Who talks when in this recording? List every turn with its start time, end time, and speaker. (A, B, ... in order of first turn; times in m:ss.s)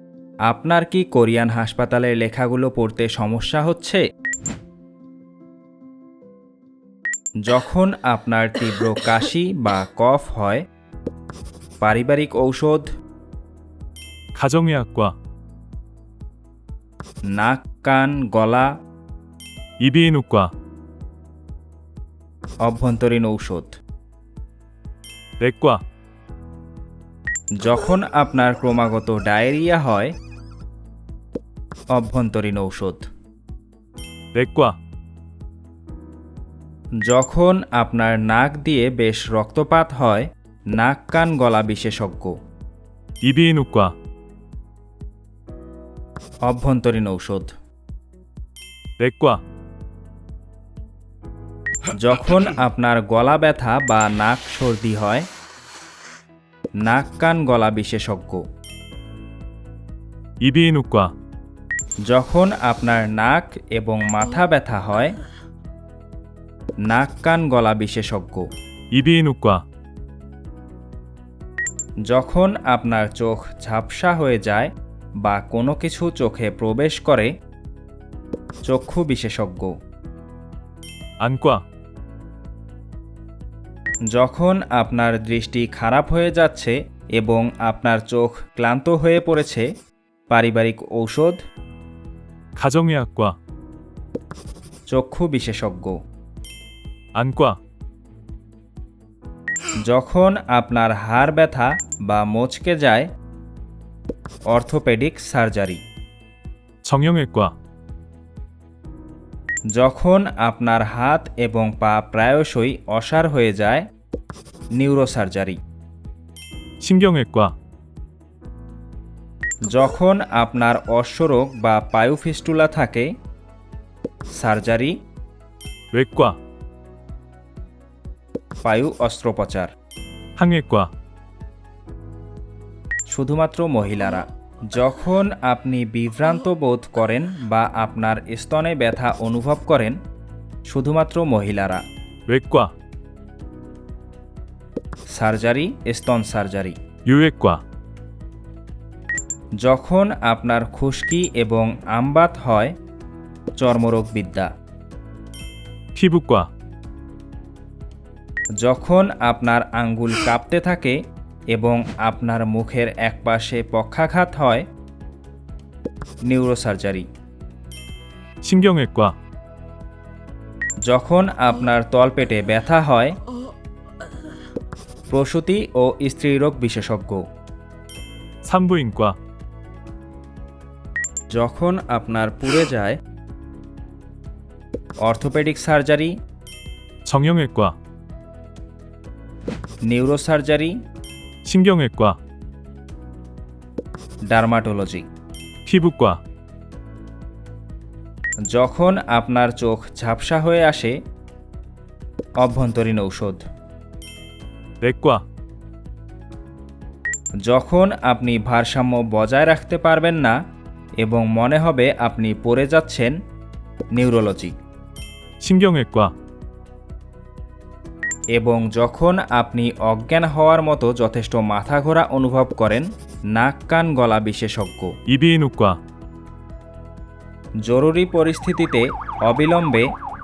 0:00.5-0:04.0 A
0:07.4-0:10.6 A
0:11.8-0:12.9 A
0:14.4-0:15.1 B
0:17.3-0:18.7 A
0:19.8-0:20.5 B
0:22.6-0:23.7 A
0:25.4-0:25.8 B
0:27.6-0:30.1 A
0:32.0-0:33.0 A
0:34.4-0:34.7 B
0:37.1-0:42.3 A
0:43.2-0:43.9 B
0:46.5-0:47.5 A
0:49.0-0:49.4 B
0:52.0-0:55.2 A
0:56.8-0:58.4 A
1:00.4-1:01.1 B
1:02.1-1:05.1 A
1:06.9-1:08.4 A
1:08.9-1:09.6 B
1:12.1-1:14.7 A
1:15.2-1:17.3 A
1:18.7-1:19.7 A
1:21.2-1:21.6 B
1:24.1-1:29.6 A
1:30.3-1:31.4 A
1:32.6-1:33.3 B
1:34.9-1:35.9 A
1:37.2-1:37.6 B
1:39.9-1:43.1 A
1:44.5-1:45.8 A
1:46.8-1:47.5 B
1:49.8-1:53.8 A
1:54.8-1:55.6 A
1:56.8-1:57.5 B
1:59.6-2:03.1 A
2:04.4-2:04.9 A
2:05.9-2:06.4 B
2:08.6-2:09.7 A
2:10.4-2:10.9 B
2:13.1-2:20.0 A
2:20.7-2:21.8 A
2:22.3-2:22.7 B
2:25.1-2:26.8 A
2:27.0-2:27.6 B
2:29.6-2:32.7 A
2:33.6-2:34.5 A
2:36.0-2:36.5 B
2:38.6-2:41.0 A
2:41.5-2:44.6 A
2:46.2-2:47.1 A
2:48.4-2:49.1 B
2:50.9-2:53.2 A
2:55.1-2:57.2 A
2:58.4-2:59.2 B
3:01.4-3:03.0 A
3:05.0-3:06.1 A
3:07.1-3:07.7 B
3:09.9-3:10.7 A
3:11.5-3:12.2 B
3:14.3-3:15.0 A
3:15.6-3:16.2 B
3:18.5-3:20.9 A
3:22.4-3:23.4 A
3:24.8-3:25.2 B
3:27.5-3:30.4 A
3:31.0-3:33.1 A
3:33.9-3:34.6 A
3:35.4-3:36.1 B
3:38.4-3:44.9 A
3:45.1-3:45.8 B
3:47.6-3:49.9 A